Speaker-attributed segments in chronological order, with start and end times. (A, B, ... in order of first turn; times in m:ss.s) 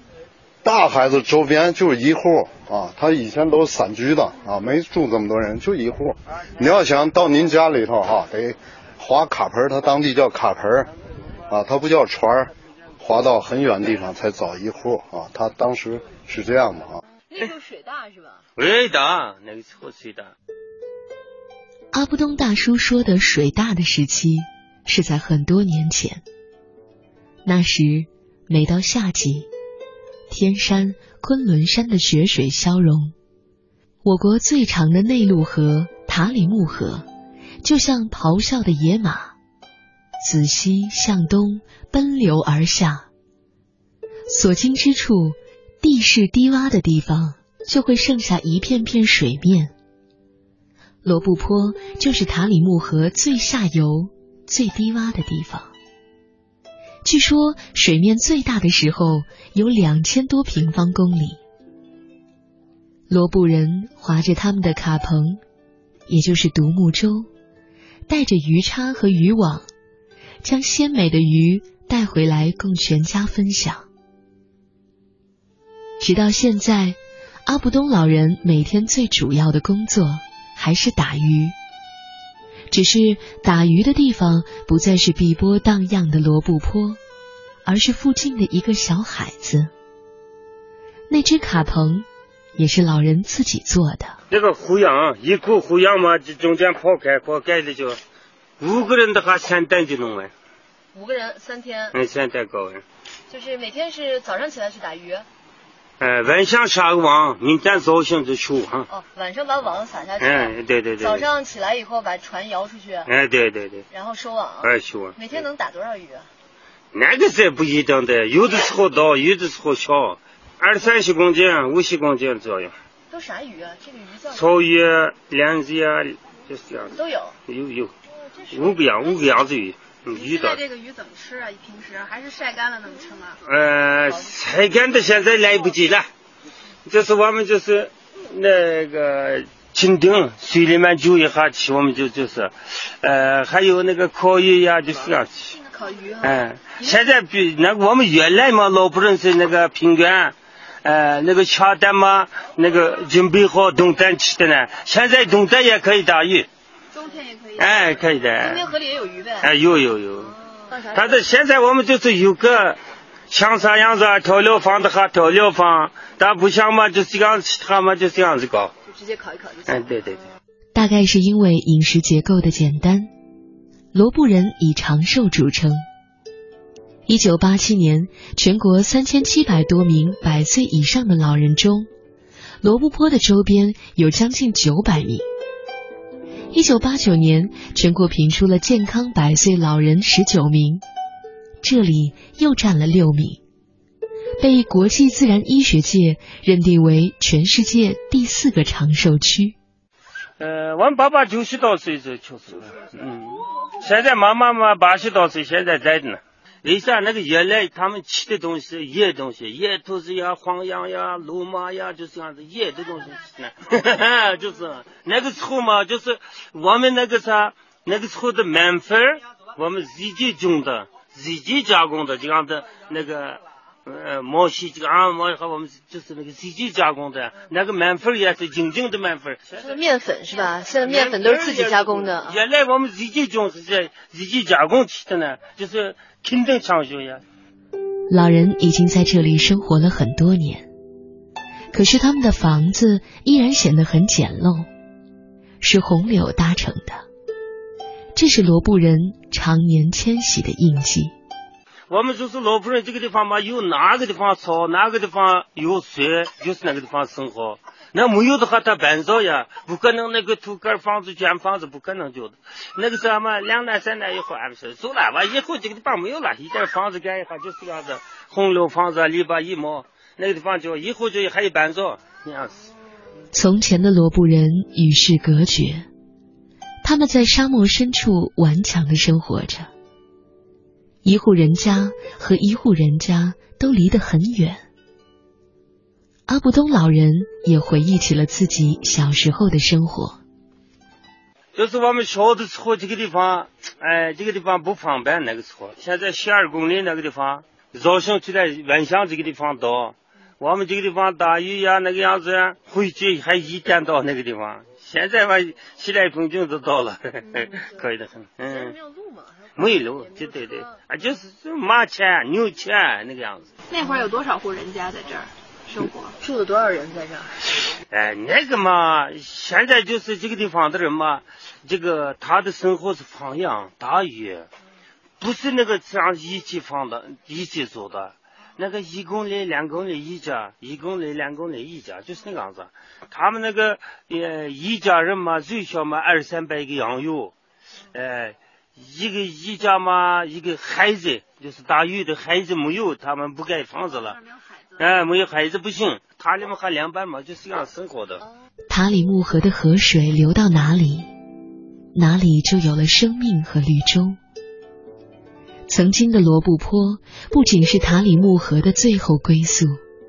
0:00.6-0:10.9 A
0:11.5-0:17.0 A
0:17.3-0:18.4 B
0:18.6-0:20.3 C
0:21.9-0:26.2 D
0:27.4-0:29.5 D
0:30.3-0:33.1 D
0:34.0-0:37.1 D
0:37.6-0:39.4 D
0:40.2-0:43.1 D
0:44.3-0:49.7 D
0:51.0-0:55.7 D
0:57.0-1:01.4 D
1:03.1-1:05.4 D
1:06.1-1:07.3 D
1:08.1-1:09.7 D
1:10.4-1:13.9 D
1:16.0-1:21.6 D
1:22.7-1:27.0 D
1:27.6-1:29.7 D
1:31.1-1:34.2 D
1:34.3-1:38.0 C
1:38.6-1:40.3 C
1:40.9-1:42.0 B
1:41.9-1:42.8 C
1:43.3-1:45.3 B
1:46.0-1:48.9 C
1:48.9-1:53.1 B
1:50.2-1:51.2 C
1:53.1-1:53.9 C
1:53.9-1:56.3 B
1:54.6-1:55.4 C
1:56.9-2:02.8 C
2:03.1-2:04.5 B
2:04.3-2:07.0 C
2:06.9-2:07.4 B
2:07.5-2:07.9 C
2:08.5-2:10.6 C
2:10.1-2:13.4 E
2:13.4-2:16.1 C
2:16.9-2:25.5 C
2:25.6-2:27.0 E
2:26.2-2:36.5 C
2:36.9-2:38.0 E
2:37.6-2:38.7 C
2:38.4-2:39.5 B
2:39.4-2:40.3 C
2:40.2-2:41.2 B
2:40.9-2:48.7 C
2:48.8-2:50.0 B
2:49.7-2:50.3 C
2:50.7-2:53.1 D
2:53.9-2:55.8 D
2:57.1-3:01.9 D
3:02.6-3:05.3 D
3:06.5-3:10.8 D
3:11.6-3:13.4 D
3:14.4-3:19.6 D
3:20.4-3:49.7 C
3:49.6-3:52.4 B
3:50.8-3:57.2 C
3:58.1-4:00.7 D
4:01.7-4:04.7 D
4:05.6-4:07.0 D
4:08.2-4:11.1 D
4:11.9-4:32.7 C
4:33.3-4:35.9 D
4:36.8-4:39.7 D
4:41.0-4:44.6 D
4:46.3-4:50.2 D
4:51.6-5:08.7 C
5:07.3-5:07.7 B
5:08.5-5:10.8 B
5:09.6-5:13.5 C
5:13.7-5:16.2 E
5:13.8-5:14.2 B
5:16.2-5:17.4 B
5:17.9-5:24.5 C
5:25.2-5:37.3 C
5:37.9-5:44.2 C
5:44.8-5:48.2 C
5:48.7-5:51.1 D
5:51.9-5:54.2 D
5:55.7-5:59.8 D